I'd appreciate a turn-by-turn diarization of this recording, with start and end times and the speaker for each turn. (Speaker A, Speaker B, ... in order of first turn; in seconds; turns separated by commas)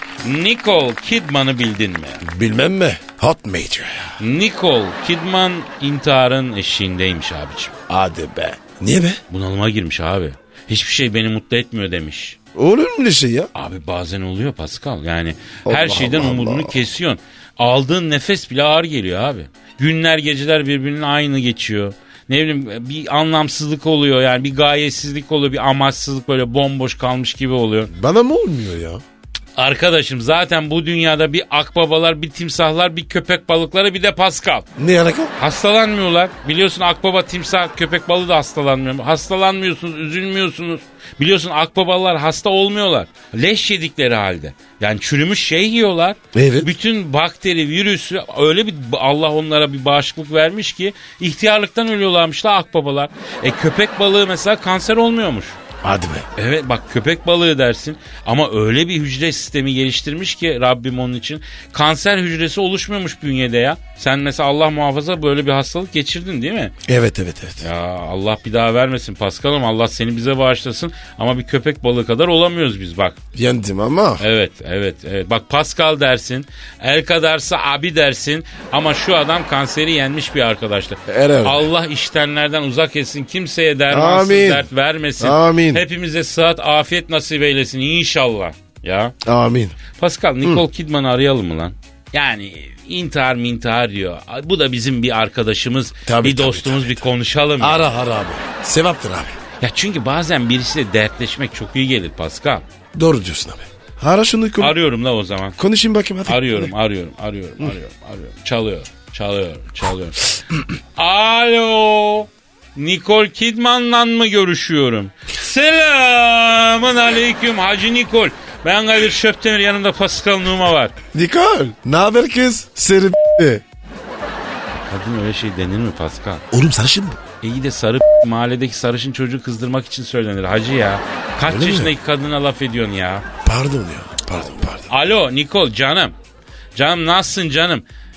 Speaker A: 0.2-2.2, Speaker B: 2.2-4.2, Speaker A: 4.2-7.7, Speaker B: 7.9-9.2, Speaker A: 9.3-12.4, Speaker B: 12.5-13.5, Speaker A: 13.5-27.9, Speaker B: 15.6-16.8, Speaker B: 27.9-29.0, Speaker A: 29.6-34.7, Speaker B: 34.8-35.3, Speaker A: 35.4-55.6, Speaker B: 46.3-46.7, Speaker B: 55.8-56.3, Speaker A: 56.4-66.7, Speaker B: 66.8-67.6, Speaker A: 67.6-73.2, Speaker B: 73.3-74.2, Speaker A: 74.2-89.1, Speaker B: 81.1-81.7, Speaker B: 83.9-84.7, Speaker B: 85.2-85.8, Speaker B: 89.2-89.8, Speaker A: 89.9-97.8, Speaker B: 96.1-97.0, Speaker B: 97.6-99.4, Speaker A: 99.6-102.6, Speaker B: 102.9-104.8, Speaker A: 104.6-105.6, Speaker B: 105.6-106.7, Speaker A: 106.3-110.3, Speaker A: 111.0-121.0, Speaker B: 121.1-123.6, Speaker A: 124.7-126.5, Speaker B: 126.5-127.2, Speaker A: 127.4-133.2, Speaker B: 131.5-131.9, Speaker B: 133.4-134.9, Speaker A: 134.9-136.1, Speaker A: 136.7-137.8